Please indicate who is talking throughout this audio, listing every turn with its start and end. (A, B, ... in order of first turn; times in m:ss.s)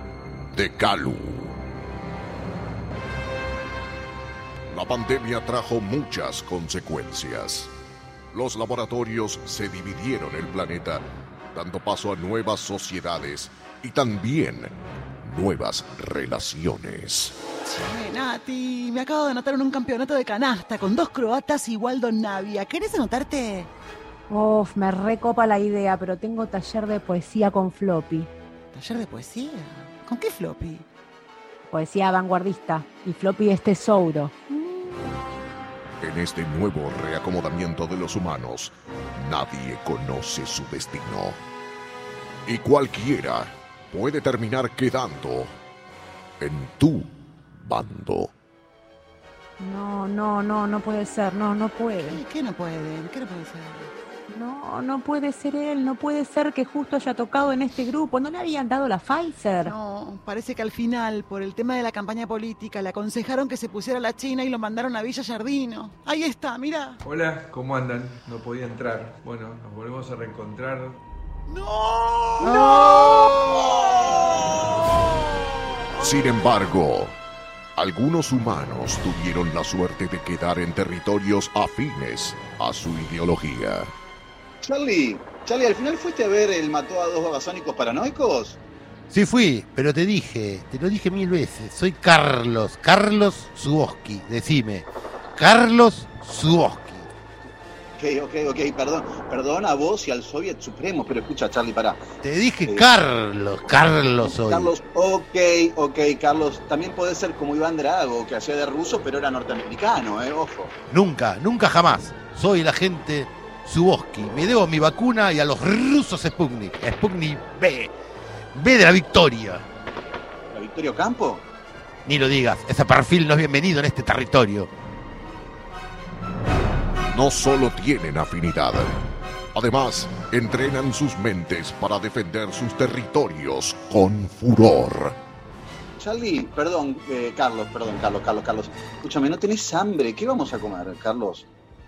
0:00.5-0:01.6 A
0:04.7-0:07.7 A
0:08.3-0:17.4 A
0:17.6-0:23.7 B
0:24.3-0:28.3 C
0:28.7-0:30.8 B
0:31.7-0:34.3 C
0:34.7-0:35.1 B
0:36.0-0:41.4 A
0:42.5-0:45.5 A
0:46.4-0:48.3 A
0:49.6-0:52.2 C
0:52.1-0:53.9 B
0:54.3-0:59.7 C
0:59.6-1:07.0 B
1:07.0-1:11.0 D
1:11.5-1:14.5 B
1:16.0-1:17.2 A
1:17.8-1:23.9 A
1:24.6-1:28.6 E
1:29.1-1:37.1 F
1:38.0-1:42.0 E
1:42.2-1:44.7 F
1:44.2-1:50.7 E
1:50.9-1:57.9 F
1:58.5-1:59.6 F
2:00.5-2:01.4 E
2:02.0-2:04.7 F
2:07.1-2:08.9 A
2:09.5-2:15.2 A
2:16.0-2:21.4 E